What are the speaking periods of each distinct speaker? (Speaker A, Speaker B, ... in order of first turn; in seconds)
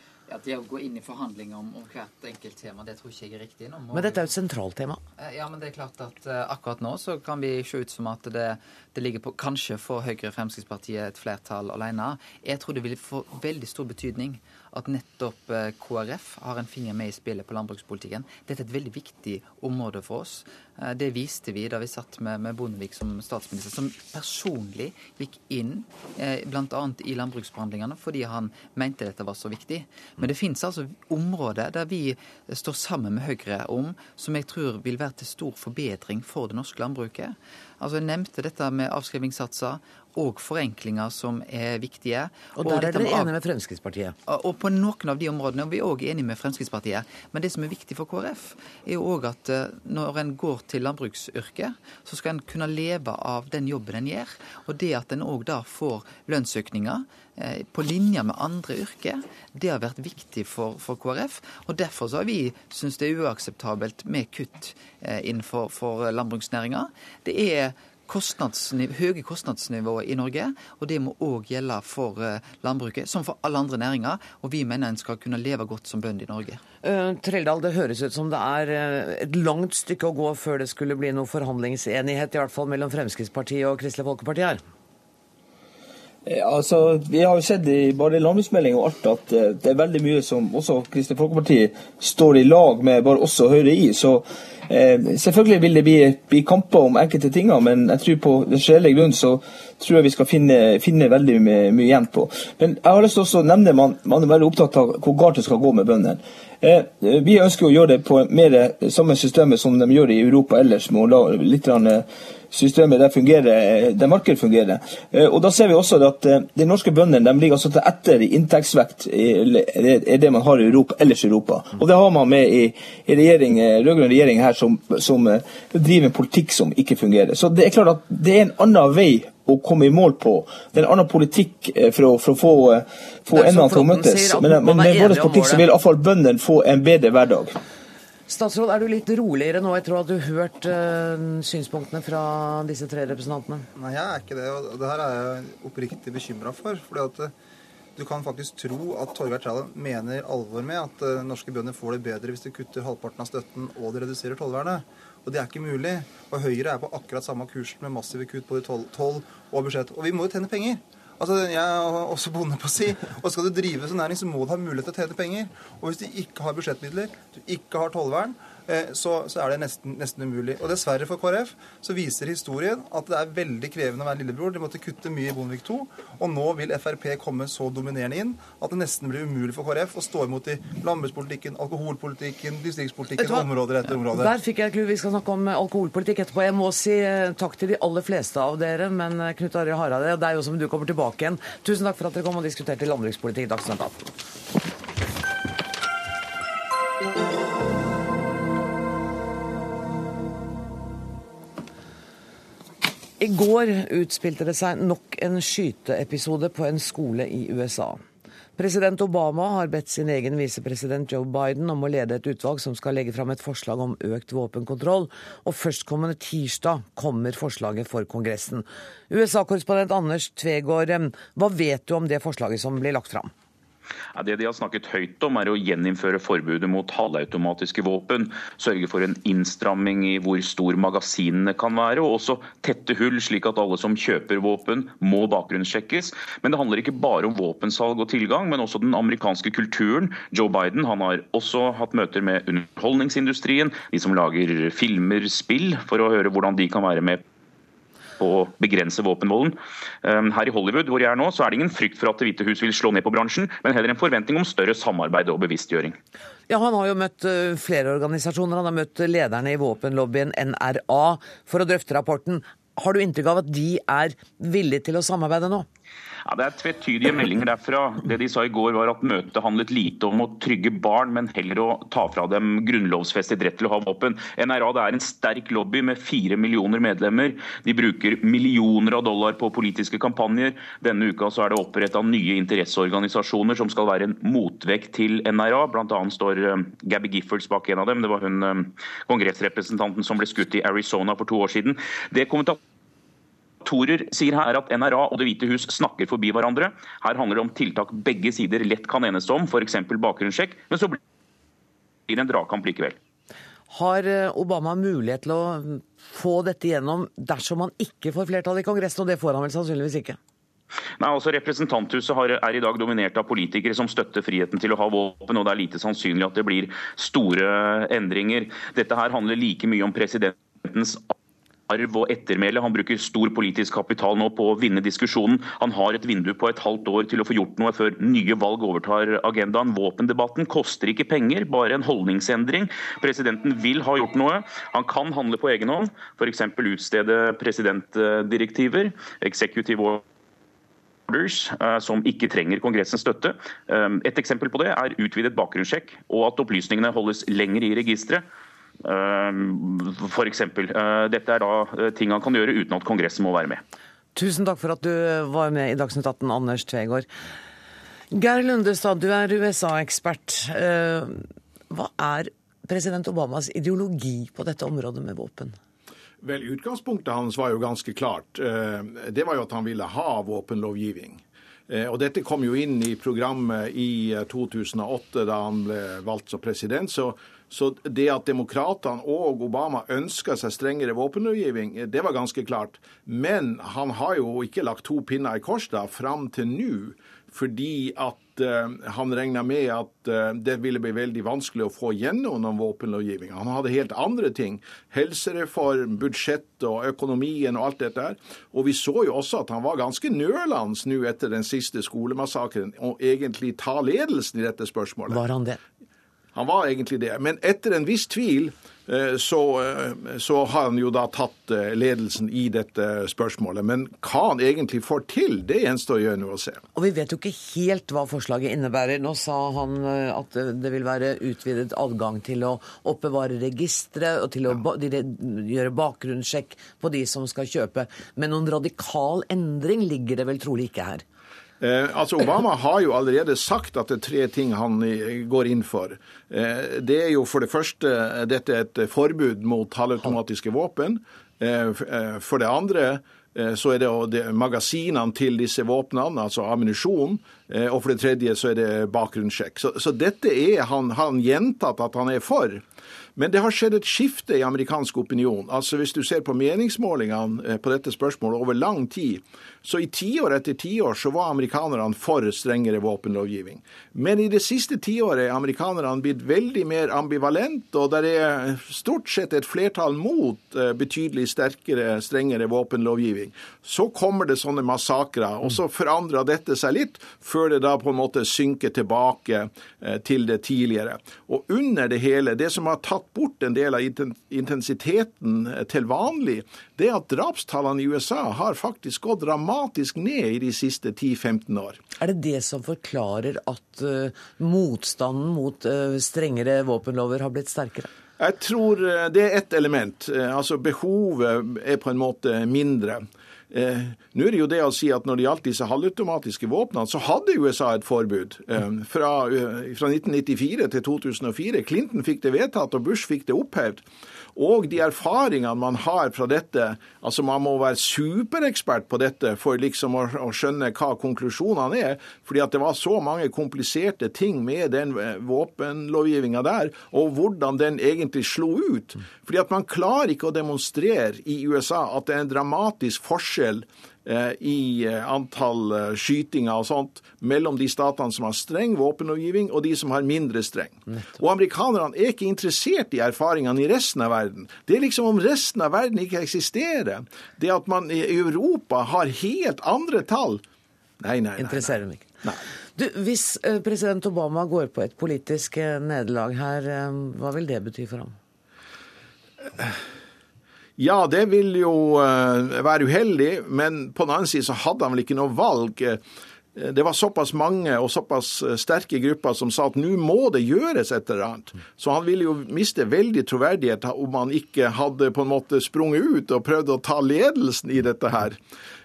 Speaker A: 0.3-4.3, 5.2-43.3, 44.3-76.6
Speaker B: 3.9-5.0, 42.5-44.1, 76.8-84.6, 133.3-135.7, 138.3-143.7, 183.2-183.5, 184.1-194.1, 203.2-208.0, 208.6-223.3, 256.5-265.6, 303.7-310.2, 354.1-357.1, 358.1-365.6, 405.1-405.6, 416.7-431.0, 492.0-497.9, 551.4-552.2, 552.8-558.1
Speaker C: 86.2-137.5
Speaker D: 143.8-147.3, 147.9-184.3
Speaker E: 224.1-247.2, 248.2-255.9, 266.2-292.6, 293.6-301.0, 302.1-303.0, 311.0-321.1, 321.7-340.0, 341.1-348.2, 348.8-353.6
Speaker F: 366.2-405.2, 406.3-416.6, 431.6-452.6, 453.1-491.8, 498.2-550.4, 551.0-552.4, 560.8-566.0, 566.5-578.4